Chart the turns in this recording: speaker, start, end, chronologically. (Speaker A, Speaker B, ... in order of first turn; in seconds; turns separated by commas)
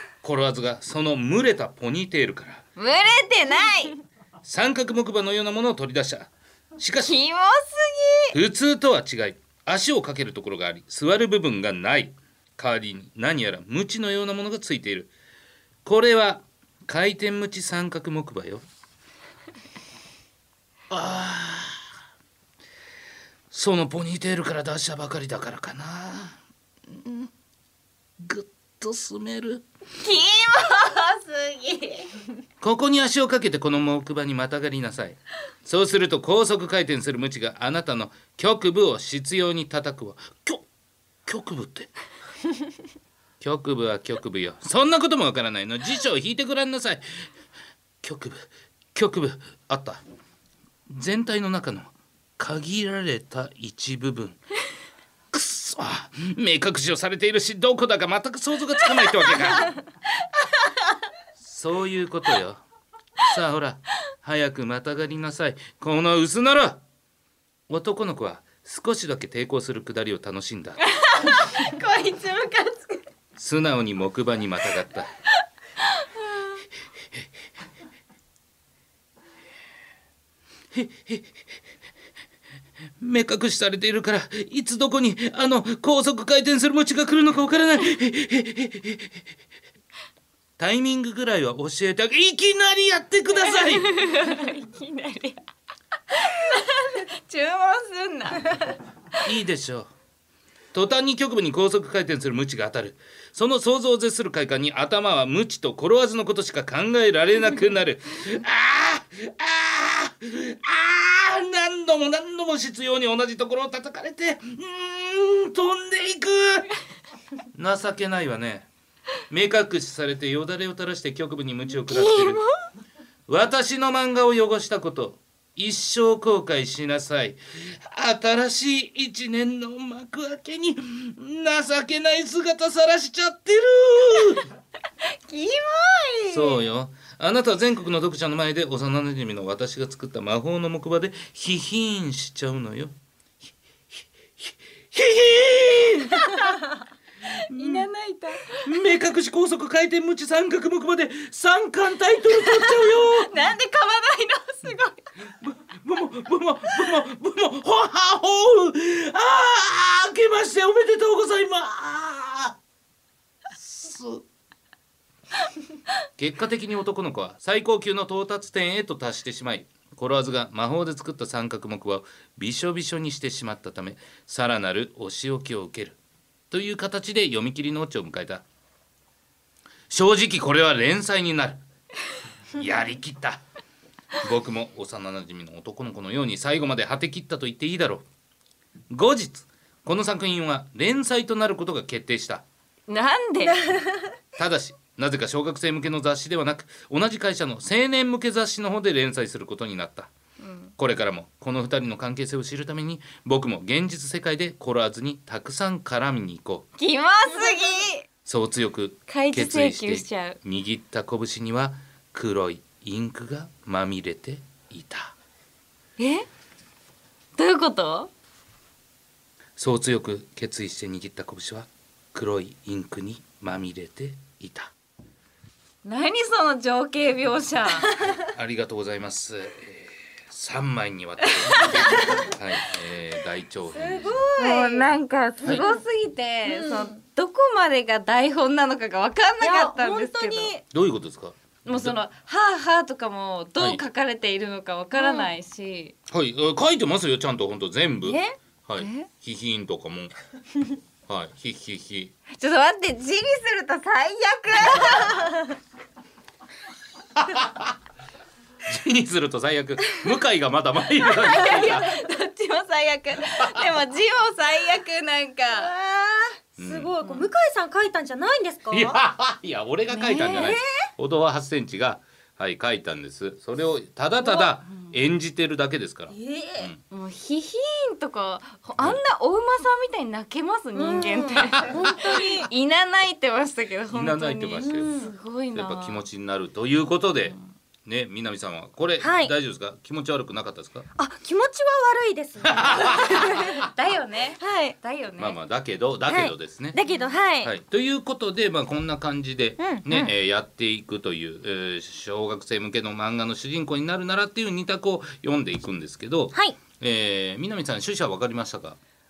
Speaker A: 0.2-2.6, Speaker B: 2.8-4.0, Speaker A: 4.4-7.2, Speaker B: 7.0-8.4, Speaker A: 8.3-15.1, Speaker A: 15.8-18.6, Speaker A: 20.9-21.9, Speaker A: 23.5-27.3, Speaker A: 28.2-29.7, Speaker B: 30.0-32.2, Speaker A: 32.6-40.7, Speaker A: 41.2-41.9, Speaker A: 43.4-47.2, Speaker A: 48.0-50.0, Speaker A: 50.9-54.4, Speaker A: 55.3-59.7, Speaker A: 61.4-62.6, Speaker A: 63.2-66.8, Speaker A: 67.7-70.8, Speaker B: 70.9-73.0, Speaker A: 73.4-75.1, Speaker B: 75.9-76.6, Speaker A: 80.7-81.4, Speaker A: 83.0-89.2, Speaker A: 90.6-93.9, Speaker B: 93.5-95.5, Speaker B: 96.1-99.3, Speaker A: 99.2-99.9, Speaker A: 100.7-116.7, Speaker A: 117.5-118.7, Speaker A: 119.3-122.4, Speaker B: 121.9-122.4, Speaker A: 123.3-134.5, Speaker B: 135.3-136.6, Speaker A: 136.3-142.9, Speaker A: 144.4-146.6, Speaker B: 147.4-148.7, Speaker A: 147.5-147.9, Speaker A: 148.6-153.3, Speaker B: 152.5-155.0, Speaker A: 155.4-162.6, Speaker A: 163.5-164.2, Speaker A: 166.2-176.0, Speaker A: 176.5-178.4, Speaker A: 179.9-181.6, Speaker A: 182.6-183.4, Speaker A: 184.2-188.1, Speaker A: 188.9-192.4, Speaker B: 192.9-193.7, Speaker C: 193.4-194.1, Speaker A: 194.4-200.1, Speaker B: 200.4-200.7, Speaker A: 200.8-206.7, Speaker B: 206.8-208.1, Speaker A: 208.2-215.2, Speaker B: 209.1-210.4, Speaker B: 216.0-216.2, Speaker B: 217.4-218.1, Speaker A: 219.6-224.7, Speaker B: 225.8-227.9, Speaker A: 228.2-234.2, Speaker B: 231.2-232.1, Speaker C: 231.7-232.3, Speaker C: 233.7-234.9, Speaker B: 234.4-240.5, Speaker C: 236.5-237.0, Speaker C: 239.4-240.6, Speaker A: 240.7-242.0, Speaker B: 241.7-245.9, Speaker C: 244.9-245.3, Speaker A: 246.1-250.1, Speaker C: 248.1-248.3, Speaker B: 248.8-249.1, Speaker A: 251.1-252.1, Speaker B: 252.3-255.3, Speaker A: 257.2-257.7, Speaker A: 258.7-261.9, Speaker B: 261.0-265.7, Speaker A: 263.3-263.7, Speaker C: 265.5-269.0, Speaker A: 266.6-266.9, Speaker A: 268.7-276.8, Speaker B: 269.9-270.5, Speaker C: 270.3-270.9, Speaker C: 276.1-276.7, Speaker B: 276.9-286.0, Speaker C: 280.8-282.5, Speaker A: 283.9-284.9, Speaker C: 284.7-285.1, Speaker A: 285.5-290.9, Speaker C: 289.0-289.3, Speaker C: 291.0-293.7, Speaker A: 292.4-293.7, Speaker B: 293.7-295.4, Speaker C: 294.4-294.8, Speaker A: 295.2-296.8, Speaker C: 296.1-297.5, Speaker A: 297.4-308.8, Speaker C: 299.6-300.1